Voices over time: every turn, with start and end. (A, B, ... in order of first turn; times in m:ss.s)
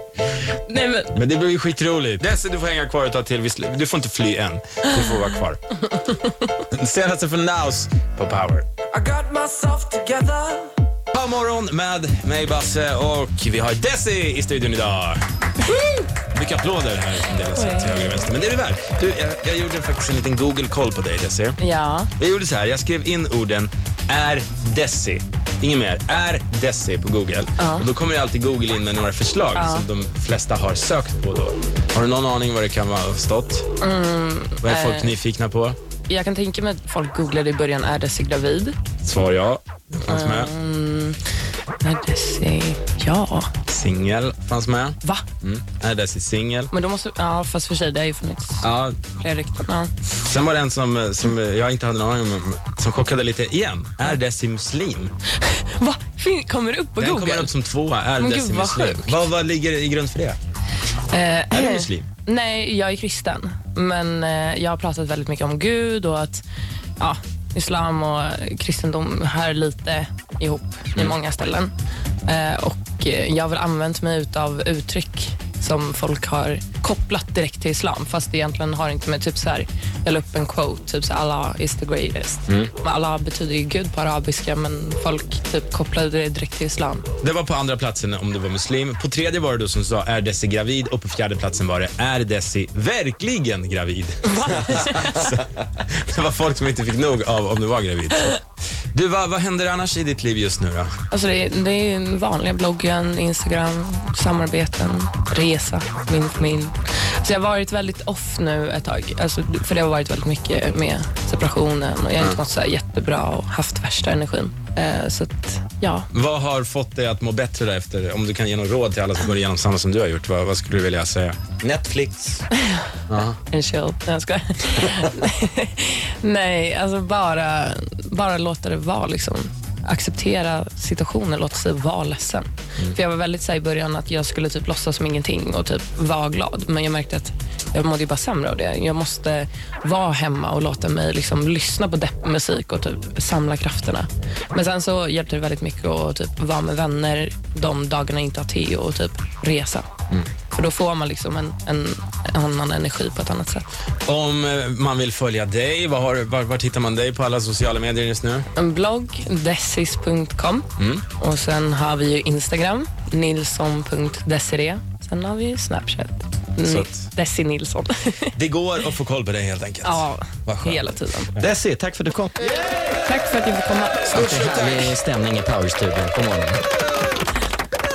0:00.7-0:01.1 A
0:01.1-0:05.6 B
0:06.6-0:08.7 B
0:08.9-0:10.6 A
0:11.1-0:15.2 B
0:15.7-0:16.0 A
0:16.3-0:21.6 B
0:17.5-0:17.9 A
0:21.6-0:22.1 A
0:22.2-0:33.7 B
0:27.6-0:27.9 A
0:29.6-0:29.8 A
0:33.8-0:35.2 A
0:34.6-0:35.8 B
0:36.1-0:38.8 A
0:39.0-0:40.5 B
0:40.1-0:41.2 A
0:41.8-0:43.5 A
0:43.7-0:46.7 B
0:46.7-0:49.9 A
0:48.6-0:49.0 B
0:50.2-0:55.1 B
0:55.4-0:57.5 A
0:57.0-1:00.4 B
0:58.2-0:59.2 A
1:01.1-1:06.4 A
1:01.5-1:02.1 B
1:07.0-1:11.7 A
1:12.2-1:27.0 A
1:27.2-1:38.4 B
1:34.2-1:35.3 A
1:38.9-1:40.9 B
1:41.1-1:56.1 A
1:56.1-2:01.4 B
2:01.6-2:02.4 C
2:02.6-2:02.8 A
2:03.1-2:03.4 B
2:03.5-2:29.9 A
2:30.5-2:33.7 A
2:34.0-2:38.4 B
2:38.6-2:40.7 A
2:40.8-2:41.0 B
2:41.2-2:48.3 A
2:46.6-2:47.0 B
2:48.3-2:51.0 B
2:49.8-2:51.4 A
2:51.4-2:52.5 C
2:53.0-2:54.2 A
2:54.1-2:55.0 B
2:54.1-2:56.6 C